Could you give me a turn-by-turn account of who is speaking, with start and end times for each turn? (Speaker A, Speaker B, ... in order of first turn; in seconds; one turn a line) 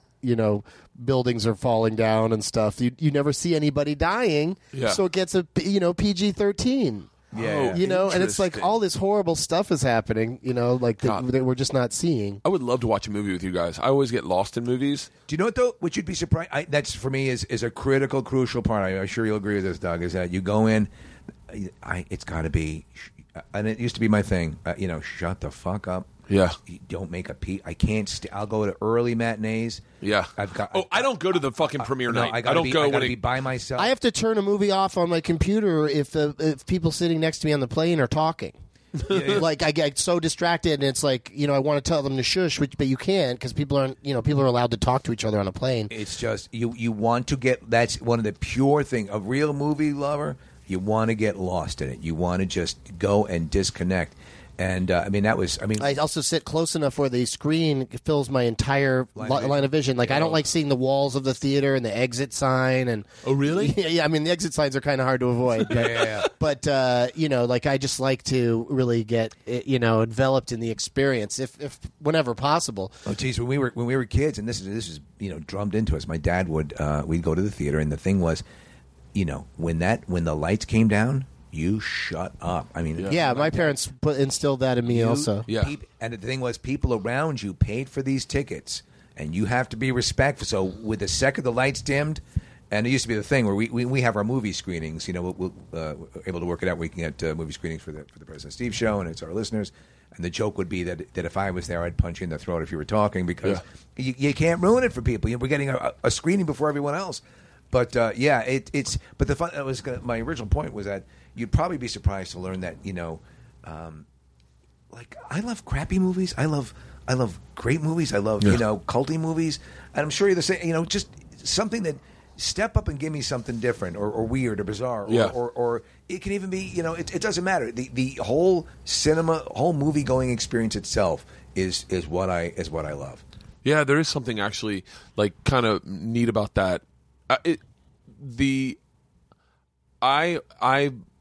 Speaker A: 0.2-7.1
Speaker B: 4.7-5.0
Speaker C: 7.3-7.9
Speaker B: 7.3-8.7
Speaker A: 7.7-12.4
Speaker B: 12.4-15.1
Speaker C: 15.3-20.9
Speaker C: 21.5-26.1
Speaker B: 26.3-26.6
Speaker C: 26.7-29.9
Speaker B: 30.0-33.2
Speaker C: 30.4-31.1
Speaker C: 31.6-33.9
Speaker A: 33.8-38.5
Speaker B: 39.0-39.4
Speaker C: 39.1-39.5
Speaker A: 39.1-45.9
Speaker C: 45.9-55.9
Speaker A: 55.8-73.0
Speaker C: 59.1-60.4
Speaker B: 63.2-63.7
Speaker C: 65.7-66.3
Speaker C: 73.0-78.4
Speaker C: 79.1-83.7
Speaker B: 83.0-83.2
Speaker A: 83.1-85.5
Speaker C: 84.9-114.1
Speaker B: 85.5-85.7
Speaker C: 114.9-133.2
Speaker B: 125.1-125.3
Speaker B: 133.6-137.6
Speaker B: 138.2-138.8
Speaker B: 140.0-140.9